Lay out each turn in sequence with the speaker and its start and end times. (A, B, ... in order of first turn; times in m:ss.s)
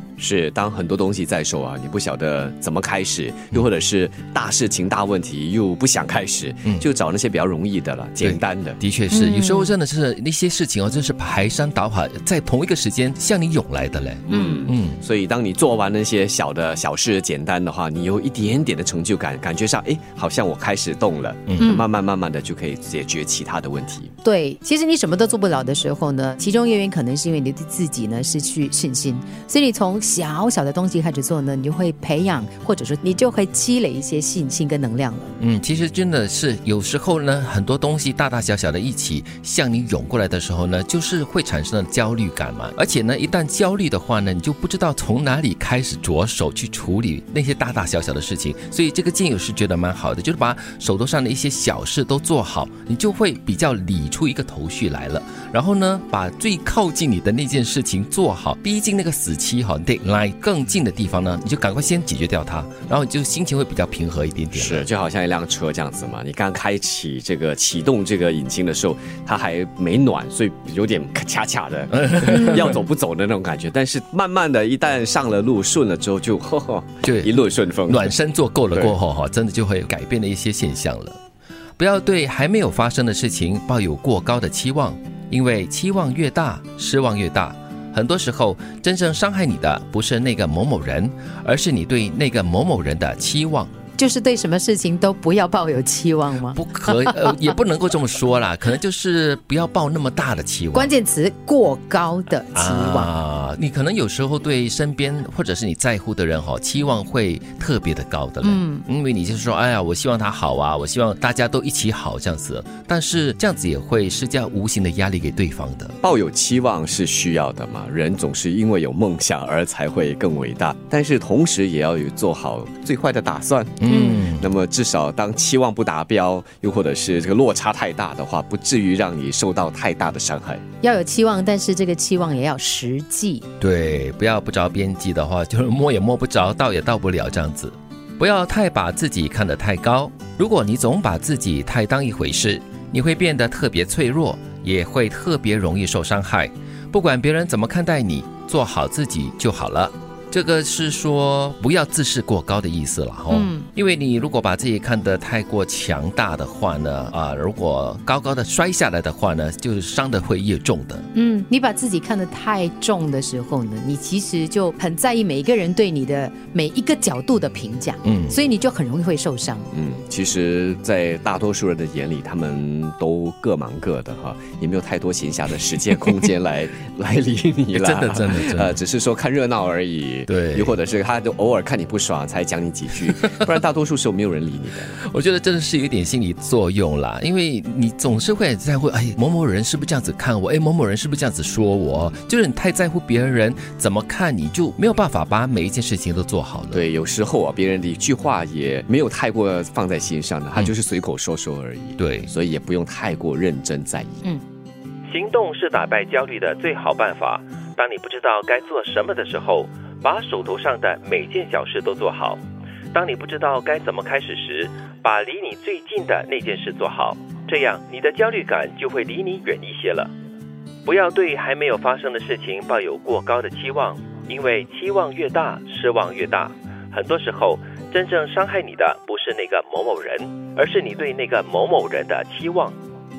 0:00.2-0:08.8 A
0:08.2-0:15.0 B
0:09.1-0:09.7 C
0:14.3-0:24.1 A
0:14.3-0:14.7 C
0:21.5-0:21.7 B
0:21.6-0:21.8 C
0:24.2-0:35.3 C
0:35.4-1:04.9 B
1:04.5-1:18.1 A
1:11.9-1:12.8 B
1:17.0-1:17.4 B
1:17.9-1:21.2 B
1:21.8-1:33.7 B
1:34.0-1:37.4 C
1:36.5-1:40.9 B
1:40.7-1:43.1 C
1:42.5-1:56.0 B
1:48.4-1:48.8 C
1:56.0-2:10.6 A
2:03.8-2:04.5 B
2:03.9-2:04.3 C
2:10.8-2:13.5 C
2:13.6-2:41.1 B
2:33.3-2:33.7 C
2:41.1-2:49.7 C
2:48.0-2:48.3 B
2:49.7-3:05.0 A
2:57.7-2:58.8 B
3:00.3-3:00.8 B
3:05.0-3:16.8 B
3:16.7-3:24.2 A
3:22.0-3:22.3 B
3:25.1-3:32.4 B
3:32.9-3:40.1 B
3:40.8-3:52.8 B